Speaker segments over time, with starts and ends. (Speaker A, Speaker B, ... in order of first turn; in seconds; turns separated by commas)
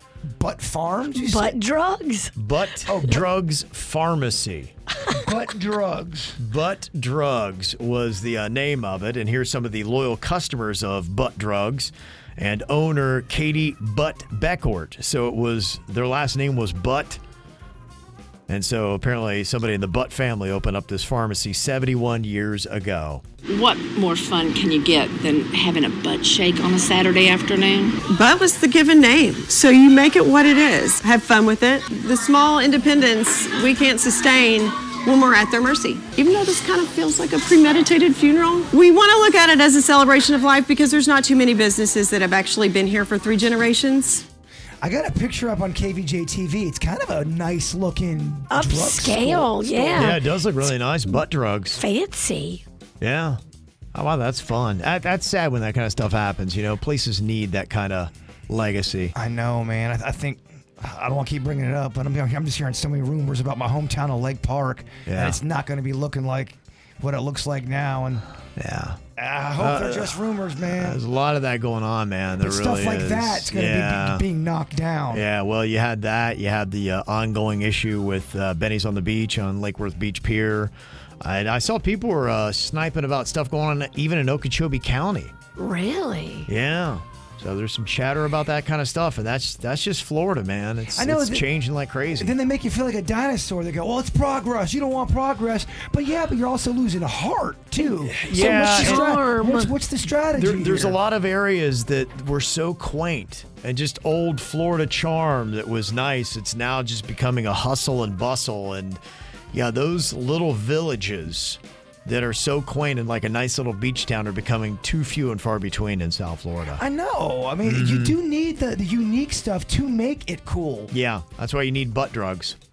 Speaker A: 0.3-1.6, Speaker B: 1.1-2.3, Speaker C: 2.4-4.7, Speaker A: 2.9-3.2, Speaker A: 5.1-6.4, Speaker C: 6.4-17.2, Speaker C: 18.5-23.2, Speaker D: 23.5-28.0, Speaker E: 28.0-44.2, Speaker A: 44.8-50.1, Speaker B: 48.5-50.2, Speaker C: 50.0-51.8, Speaker B: 51.8-52.6, Speaker C: 53.0-53.4, Speaker C: 53.9-59.1, Speaker A: 59.1-68.2, Speaker C: 65.0-65.4, Speaker C: 68.6-69.0, Speaker A: 69.2-71.0, Speaker C: 69.6-70.2, Speaker C: 70.7-74.2, Speaker A: 72.4-75.2, Speaker C: 75.1-85.3, Speaker B: 85.5-86.5, Speaker C: 86.5-92.3, Speaker A: 91.0-91.5, Speaker A: 92.2-101.0, Speaker C: 98.0-99.1, Speaker B: 98.3-99.7, Speaker C: 100.3-109.0, Speaker C: 109.5-116.8, Speaker A: 116.8-120.9, Speaker C: 117.6-118.1, Speaker C: 120.9-122.6